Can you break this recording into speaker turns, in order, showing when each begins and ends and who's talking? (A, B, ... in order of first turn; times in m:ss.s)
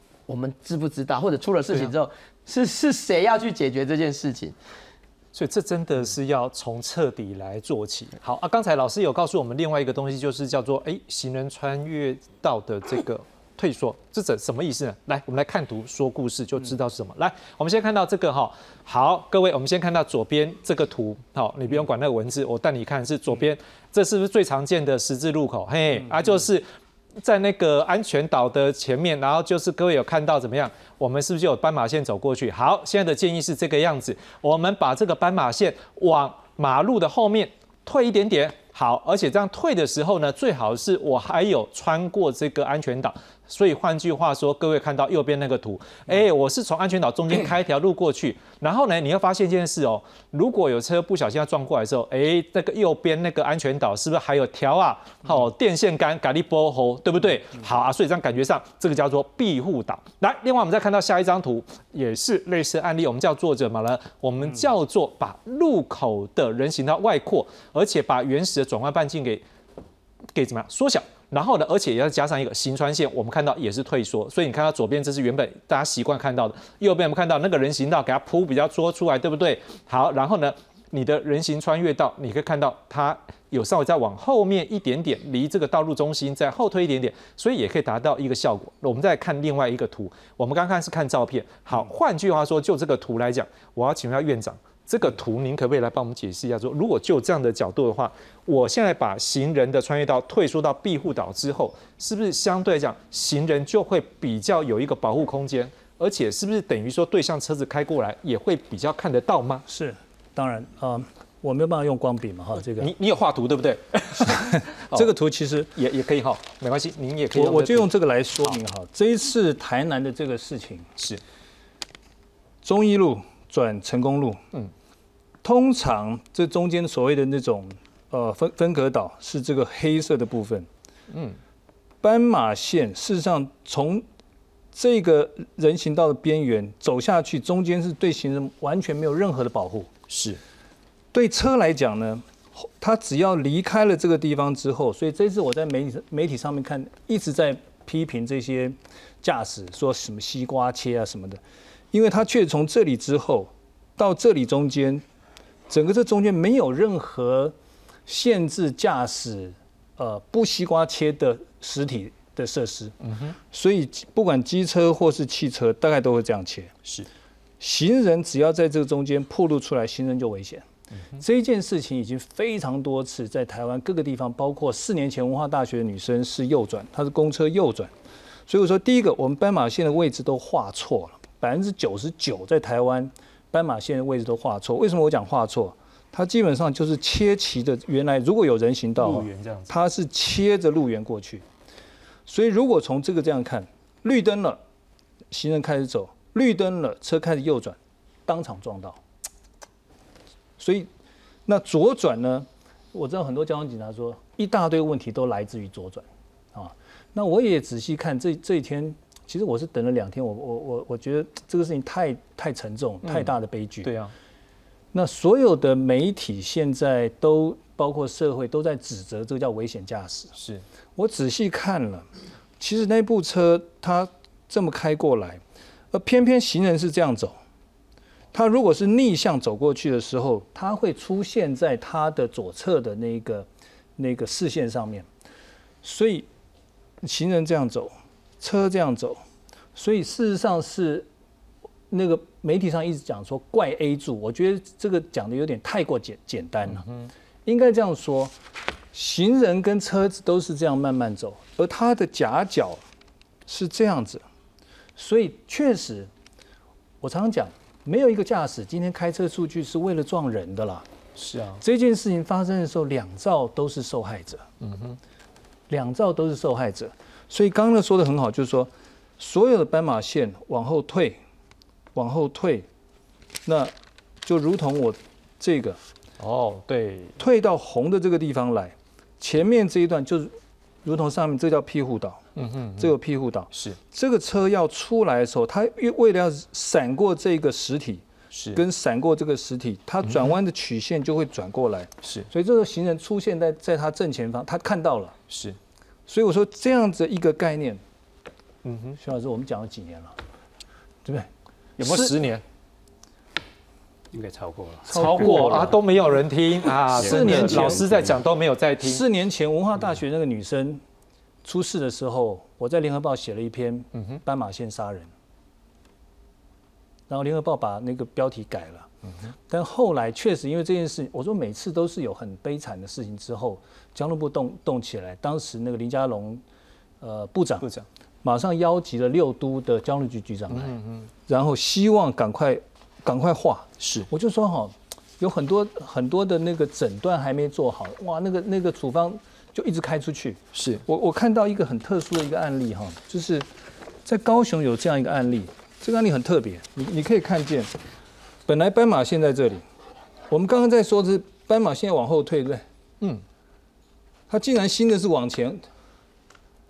0:00.3-0:04.6 A
0:05.4-0:26.7 B
0:27.2-1:09.4 B
1:10.4-1:49.6 B
1:49.7-1:52.9 C
1:52.8-1:55.1 B
1:54.9-1:55.7 C
1:55.8-1:57.9 B
1:57.3-2:00.9 C
2:02.6-2:04.4 C
2:05.4-2:10.7 C
2:11.1-2:11.4 B
2:12.0-2:14.0 C
2:14.7-2:19.9 C
2:20.1-2:20.4 B
2:21.1-2:31.4 C
2:31.9-2:35.0 C
2:35.7-2:37.6 C
2:38.1-2:43.0 C
2:43.1-2:43.4 B
2:43.5-2:46.7 C
2:47.6-2:50.6 C
2:51.2-2:57.9 C
2:58.5-3:11.4 C
3:09.0-3:09.8 B
3:12.3-3:14.6 C
3:15.3-3:19.0 C
3:20.6-3:20.9 C
3:21.5-3:33.9 C
3:33.0-3:33.3 B
3:33.8-3:34.1 B
3:34.9-3:40.3 C
3:40.4-3:40.6 B
3:41.0-3:42.1 C
3:42.6-3:45.4 C
3:45.9-3:47.4 C
3:48.3-3:55.1 C
3:55.8-3:56.3 C
3:57.0-3:59.2 C
3:59.8-4:01.1 C
4:01.9-4:06.9 C
4:07.5-4:08.4 C
4:08.9-4:12.8 C
4:13.5-4:14.2 C
4:15.0-4:16.1 C
4:17.0-4:20.8 C
4:21.2-4:21.6 B
4:21.6-4:24.4 C
4:24.6-4:25.0 B
4:25.7-4:31.2 C
4:32.0-4:32.7 C
4:33.5-4:35.8 C
4:36.2-4:37.2 B
4:37.2-4:42.2 C
4:42.4-4:42.9 B
4:42.8-4:55.2 C
4:43.5-4:43.8 B
4:48.3-4:48.6 B
4:50.1-4:50.3 B
4:55.3-4:55.6 B
4:56.1-4:57.8 C
4:58.6-4:59.0 B
4:59.0-5:00.2 C
5:01.8-5:02.4 B
5:01.8-5:02.2 C
5:04.1-5:05.6 D
5:04.9-5:05.8 C
5:04.9-5:09.0 B
5:06.9-5:08.0 C
5:07.0-5:08.2 D
5:08.8-5:10.8 C
5:11.4-5:15.1 C
5:17.1-5:18.9 C
5:19.5-5:26.4 C
5:27.0-5:27.7 C
5:28.2-5:43.5 C
5:30.5-5:31.1 B
5:33.8-5:34.1 B
5:40.6-5:40.8 B
5:44.1-5:47.7 C
5:48.5-5:49.6 C
5:50.3-5:52.6 C
5:54.3-5:55.6 C